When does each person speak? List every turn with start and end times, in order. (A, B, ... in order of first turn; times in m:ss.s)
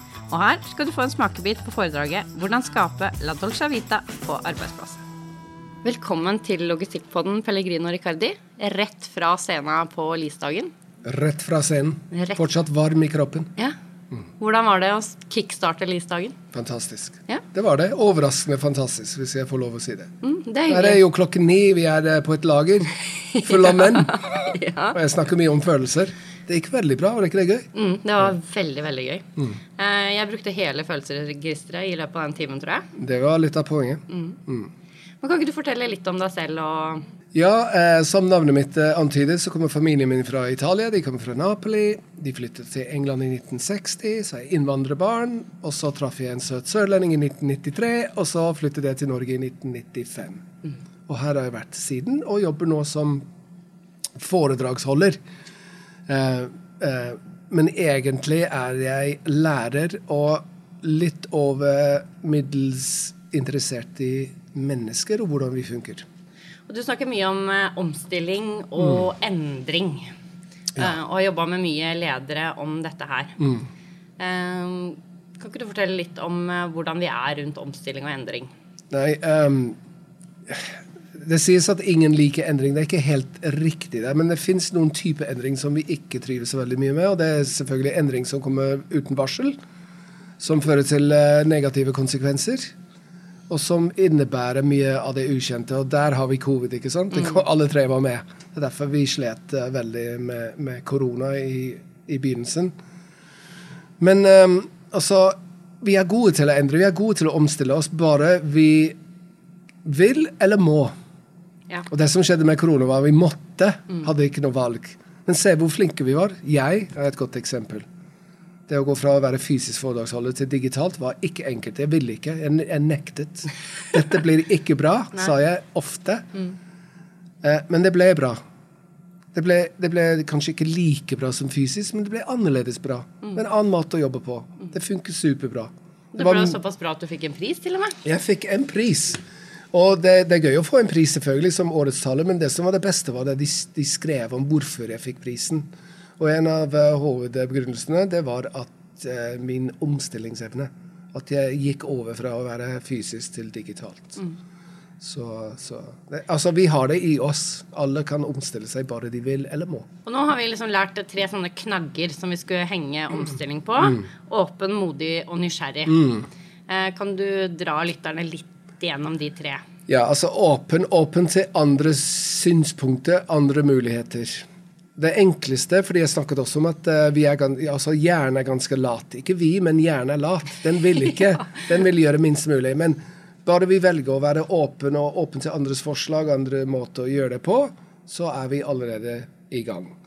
0:00.3-0:05.0 A
0:05.8-0:10.7 A
0:11.0-0:13.5 B
0:12.1-0:12.4 A
0:14.4-0:16.4 A
0:16.5-0:20.1 B
0:20.2-0:21.0 A
0:20.7-0:27.7 B
0:23.3-0:25.0 A
0:27.7-0:32.9 A
0:33.0-0:34.7 B
0:34.1-0:34.4 A
0:35.2-0:37.0 A
0:37.3-0:50.5 B
0:51.1-0:53.2 B
0:54.2-0:55.2 B
0:56.1-1:06.0 B
1:06.7-1:10.1 A
1:10.8-1:13.5 A
1:13.4-1:13.7 B
1:14.2-1:18.5 A
1:18.9-1:19.8 B
1:20.5-1:29.6 B
1:30.4-1:32.7 B
1:33.5-1:42.7 B
1:44.0-1:49.0 B
1:49.8-1:50.9 B
1:51.9-1:57.9 B
1:58.7-2:06.3 B
2:07.4-2:08.4 B
2:09.3-2:16.6 B
2:16.1-2:18.0 A
2:18.0-2:25.7 B
2:26.2-2:34.2 B
2:35.0-2:39.9 B
2:40.1-2:46.2 A
2:45.9-2:46.3 B
2:46.7-2:49.6 A
2:49.9-3:10.0 B